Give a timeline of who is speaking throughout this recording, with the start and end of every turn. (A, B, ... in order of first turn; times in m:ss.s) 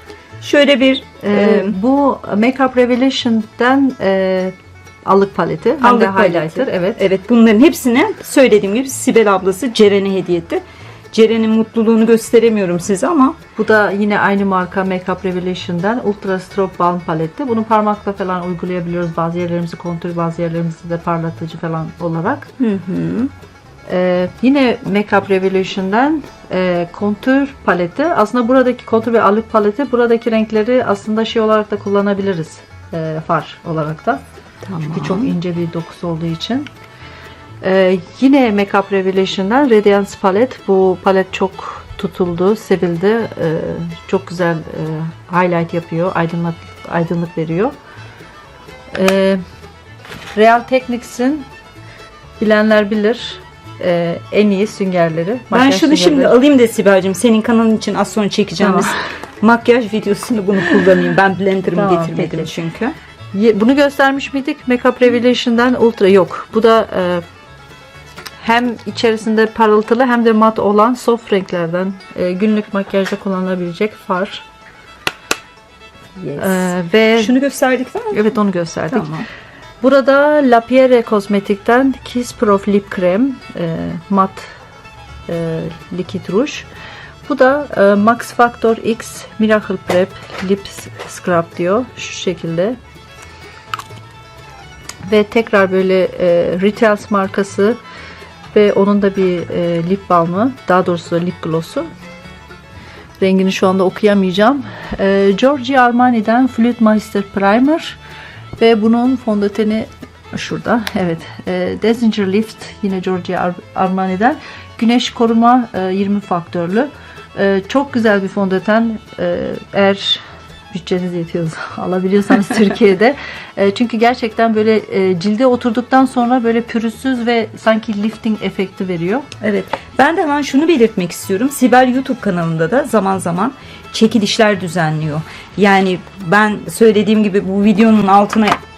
0:00.4-0:01.8 A
0:01.2-0:04.5 B
0:05.0-0:07.0 B
0:05.8-0:13.4 A
0:13.6-0:22.5 B
0:22.6-0:23.3 A
0:23.9-0:34.2 B
0:34.6-0:35.3 A
0:34.9-0:36.7 B
0:37.6-0:47.7 B
0:48.9-0:49.4 B
0:50.3-0:51.5 B
0:52.4-0:56.4 B
0:55.5-1:03.0 A
0:58.6-0:58.9 B
1:01.7-1:02.5 B
1:03.3-1:07.2 B
1:08.4-1:14.4 B
1:16.2-1:18.4 A
1:16.4-1:17.3 B
1:18.1-1:19.1 B
1:18.9-1:19.3 A
1:19.8-1:24.5 B
1:25.3-1:26.7 B
1:27.2-1:32.8 B
1:35.0-1:37.8 B
1:38.5-1:41.9 B
1:43.2-1:48.0 B
1:48.6-2:09.3 B
2:09.4-2:18.6 A